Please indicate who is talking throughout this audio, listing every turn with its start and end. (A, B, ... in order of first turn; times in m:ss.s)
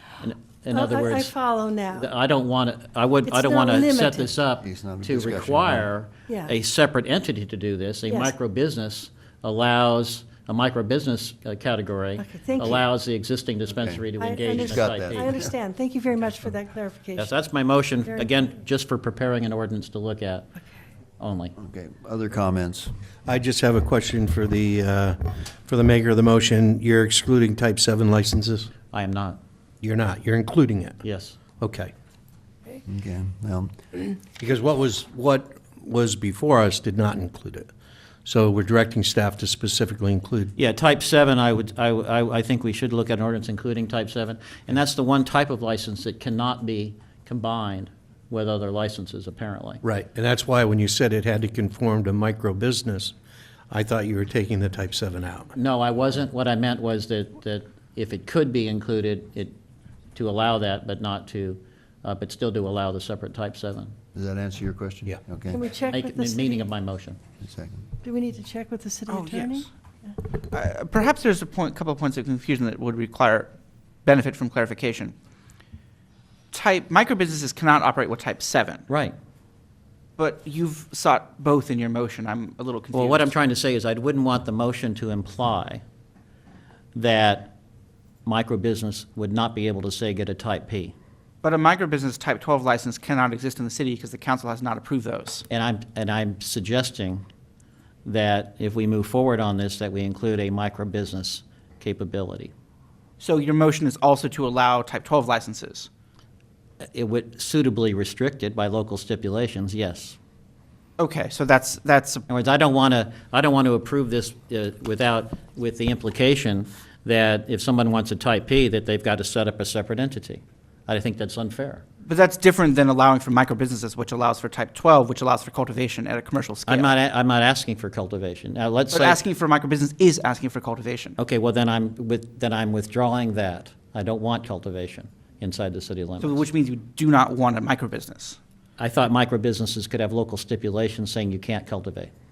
0:00.2-0:01.3 A
0:00.7-0:02.1 B
0:01.9-0:15.3 A
0:03.3-0:04.3 B
0:04.6-0:05.9 C
0:12.2-0:12.8 B
0:13.8-0:14.0 C
0:14.2-0:17.3 B
0:14.6-0:15.4 C
0:17.2-0:20.5 A
0:21.2-0:21.5 A
0:21.6-0:22.9 C
0:23.3-0:28.7 D
0:28.9-0:29.4 A
0:29.8-0:31.0 D
0:31.0-0:31.4 A
0:31.6-0:31.9 D
0:32.8-0:33.7 C
0:34.4-0:37.7 D
0:38.2-0:40.5 D
0:40.6-0:49.8 A
0:49.8-0:53.1 D
0:53.7-0:55.5 D
0:55.5-0:59.6 A
1:00.1-1:03.9 A
1:04.1-1:05.6 C
1:05.5-1:06.6 B
1:05.9-1:07.2 A
1:07.4-1:07.8 C
1:08.0-1:09.7 B
1:09.1-1:09.6 E
1:10.4-1:13.5 E
1:14.0-1:15.1 E
1:16.5-1:18.8 E
1:18.9-1:19.1 A
1:20.2-1:23.3 E
1:22.9-1:25.8 A
1:26.9-1:27.5 A
1:28.2-1:30.9 A
1:31.4-1:35.4 E
1:35.5-1:37.2 A
1:38.0-1:42.5 A
1:43.2-1:45.9 E
1:46.8-1:50.2 A
1:51.0-1:52.2 E
1:52.3-2:01.8 A
2:02.0-2:06.9 E
2:06.7-2:09.2 A
2:08.9-2:11.2 E
2:11.2-2:16.4 A
2:16.2-2:18.4 E
2:18.8-2:22.1 A